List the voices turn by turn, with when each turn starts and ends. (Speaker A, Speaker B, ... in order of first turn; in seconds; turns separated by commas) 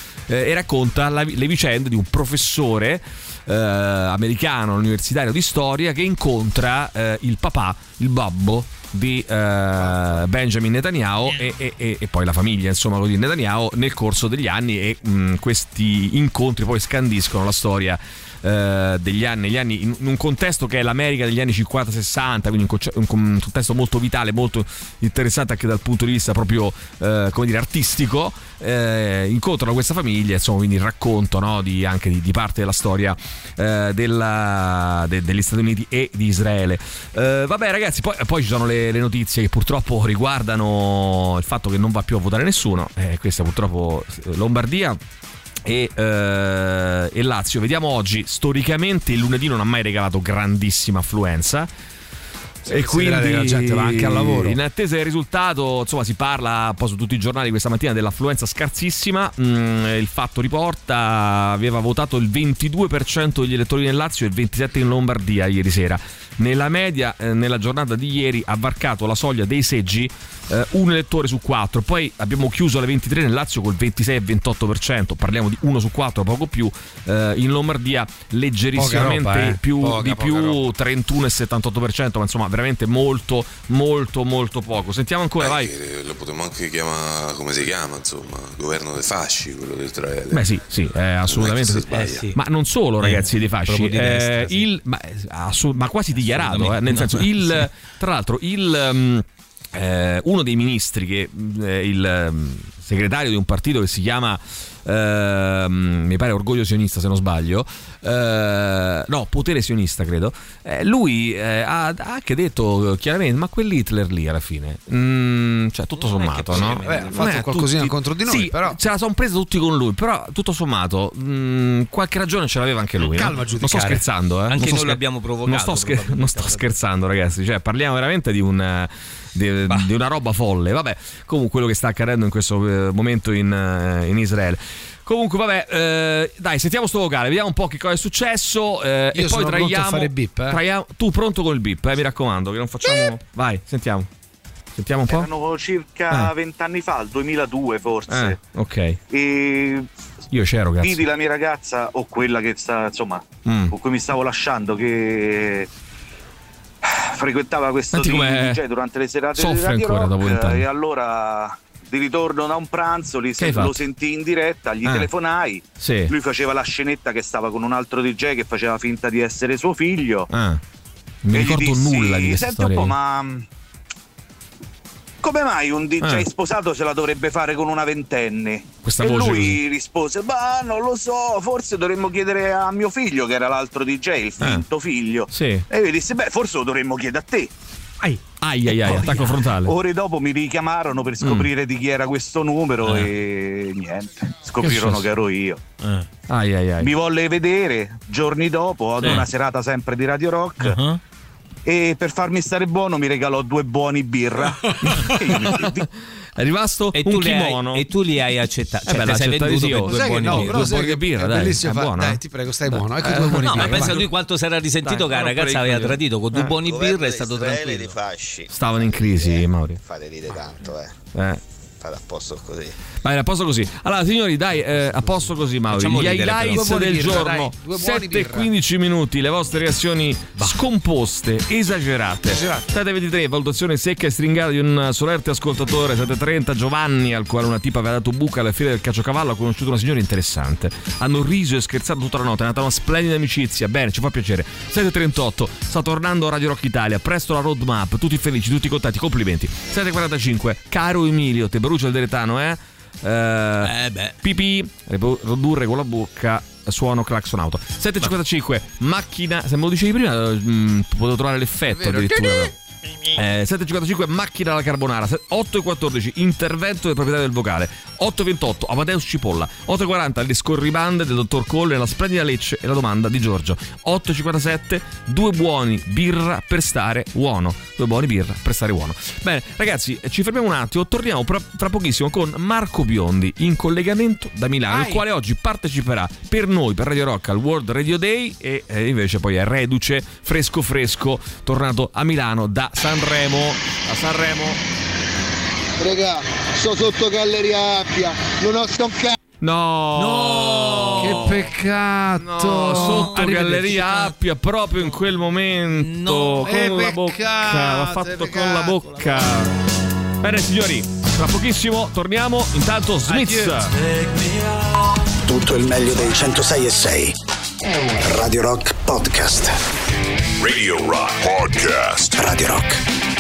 Speaker A: 0.3-45.0, Speaker A: 45.6-51.7, Speaker B: 52.6-54.6, Speaker A: 52.6-85.7, Speaker B: 78.7-80.6, Speaker C: 85.4-90.4, Speaker A: 90.3-144.1, Speaker C: 91.3-91.8, Speaker D: 91.9-92.4, Speaker D: 93.0-94.6, Speaker D: 96.2-97.6, Speaker D: 116.0-117.3, Speaker B: 116.7-118.8, Speaker B: 123.0-124.0, Speaker D: 124.5-126.8, Speaker B: 139.1-140.6, Speaker A: 144.7-145.3, Speaker E: 145.1-148.4, Speaker A: 148.1-149.0, Speaker E: 149.1-149.9, Speaker A: 150.3-151.0, Speaker E: 150.8-155.7, Speaker A: 153.4-153.7, Speaker E: 156.8-170.3, Speaker A: 157.9-158.6, Speaker A: 159.3-160.6, Speaker A: 163.4-163.8, Speaker A: 164.8-165.1, Speaker A: 165.8-166.1, Speaker A: 170.3-170.6, Speaker A: 171.2-172.9, Speaker E: 171.3-173.4, Speaker E: 175.2-187.5, Speaker A: 176.0-176.3, Speaker A: 178.8-179.6, Speaker A: 184.4-184.6, Speaker A: 185.3-185.7, Speaker A: 188.4-189.7, Speaker B: 188.8-189.3, Speaker E: 189.6-195.6, Speaker A: 191.2-191.5, Speaker A: 194.6-195.0, Speaker A: 196.3-196.9, Speaker E: 196.8-200.8, Speaker A: 199.0-199.2, Speaker D: 200.6-201.0, Speaker E: 201.7-205.8, Speaker A: 204.8-205.8, Speaker A: 206.3-207.8, Speaker D: 206.9-210.7, Speaker A: 208.8-214.1, Speaker B: 209.8-214.0, Speaker D: 213.4-218.0, Speaker A: 214.8-216.6, Speaker F: 216.6-220.9, Speaker A: 218.5-219.8, Speaker A: 221.1-221.4, Speaker F: 221.8-222.7, Speaker A: 223.0-262.5, Speaker B: 224.9-225.3, Speaker D: 225.7-226.9, Speaker B: 226.4-228.5, Speaker B: 232.3-232.7, Speaker D: 253.6-254.2, Speaker B: 261.9-262.2, Speaker A: 263.1-294.6, Speaker B: 284.7-285.0, Speaker G: 295.8-299.1, Speaker A: 299.4-301.5, Speaker D: 299.9-301.3, Speaker B: 301.0-304.1, Speaker A: 302.2-309.5, Speaker D: 302.8-303.2, Speaker D: 305.8-306.5, Speaker B: 306.4-309.1, Speaker A: 310.2-313.7, Speaker B: 313.1-313.6, Speaker H: 315.2-317.1, Speaker H: 318.0-319.6, Speaker C: 320.4-322.1, Speaker H: 322.1-322.8